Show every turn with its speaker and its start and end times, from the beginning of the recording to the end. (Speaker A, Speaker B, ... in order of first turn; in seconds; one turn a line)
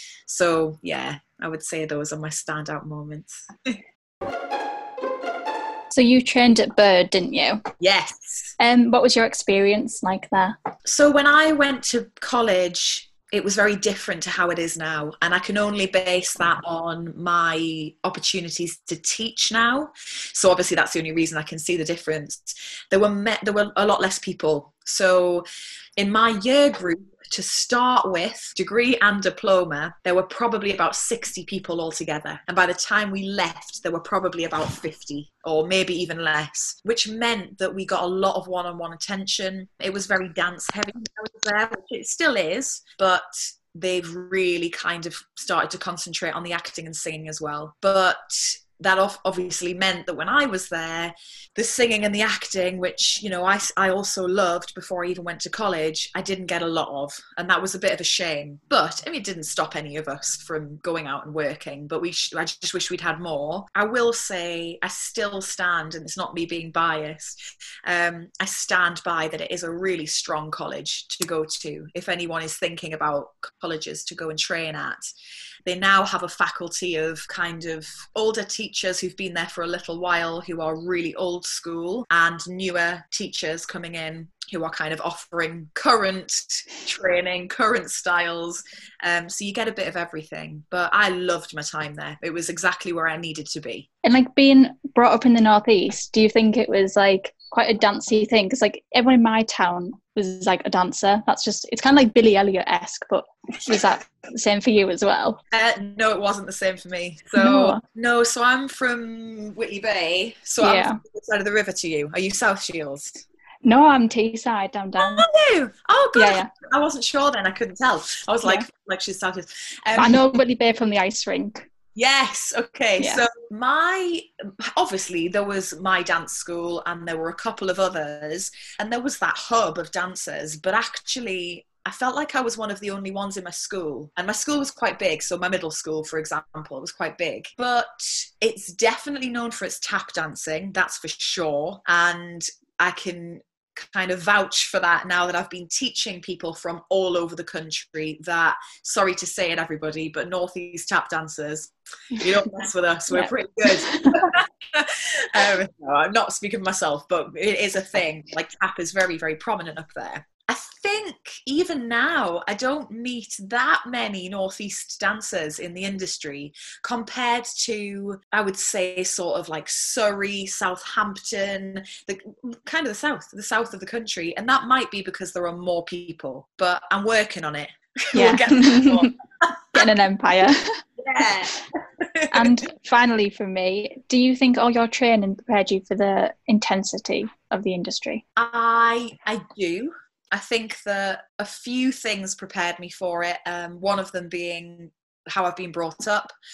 Speaker A: 0.3-3.8
Speaker B: 5.9-7.6
Speaker A: 7.8-8.6
Speaker B: 8.6-10.6
Speaker A: 10.8-25.4
Speaker A: 26.0-75.1
Speaker A: 75.7-93.9
Speaker B: 94.0-105.4
Speaker A: 105.5-113.2
Speaker B: 107.4-107.8
Speaker B: 110.6-111.0
Speaker B: 113.7-115.3
Speaker A: 115.0-120.2
Speaker B: 116.2-116.5
Speaker B: 120.0-121.7
Speaker A: 122.0-179.1
Speaker B: 178.1-179.1
Speaker B: 179.8-180.8
Speaker A: 181.0-182.6
Speaker B: 182.3-188.2
Speaker A: 188.4-196.3